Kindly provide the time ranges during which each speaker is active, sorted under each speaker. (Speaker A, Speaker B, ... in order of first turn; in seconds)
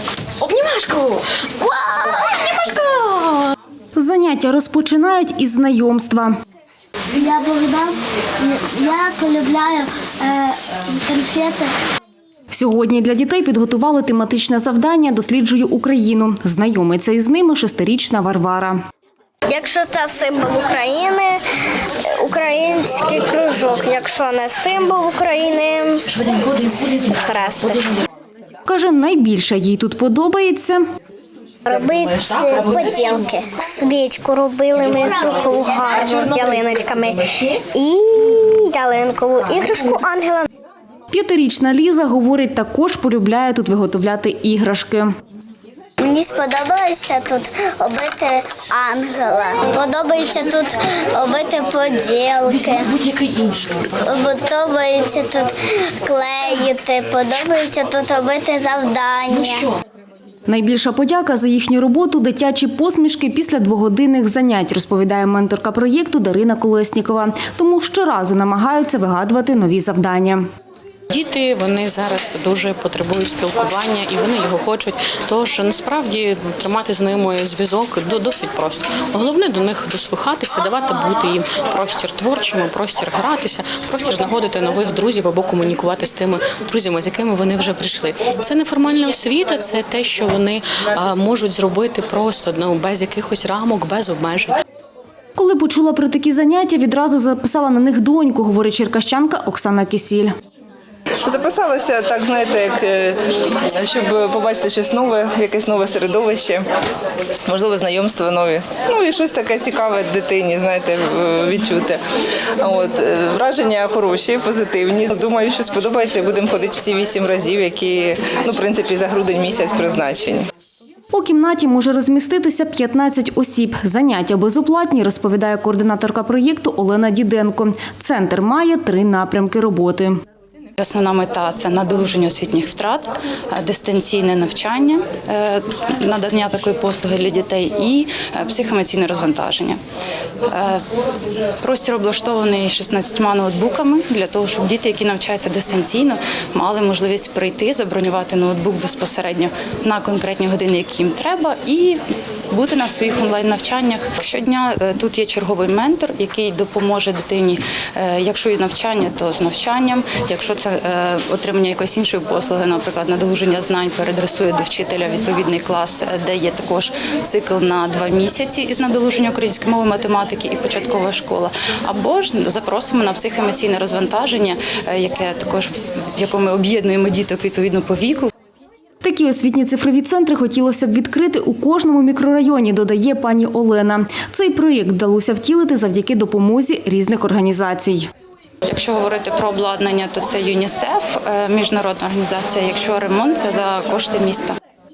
Speaker A: 0.4-3.5, 53.0-53.9, 71.1-94.6
Speaker B: 4.0-6.4, 12.5-18.8, 28.7-30.8, 41.1-45.1, 60.5-70.5, 95.4-100.3, 121.1-130.2, 179.0-188.1
Speaker C: 7.2-11.7, 46.0-52.9, 54.0-59.7
Speaker D: 19.5-21.4, 22.1-26.0, 26.8-27.9, 31.6-40.5
Speaker E: 101.2-106.7, 107.5-112.0, 112.6-120.4
Speaker F: 130.8-139.8, 140.5-140.8, 141.6-152.0, 152.5-178.3, 188.7-194.5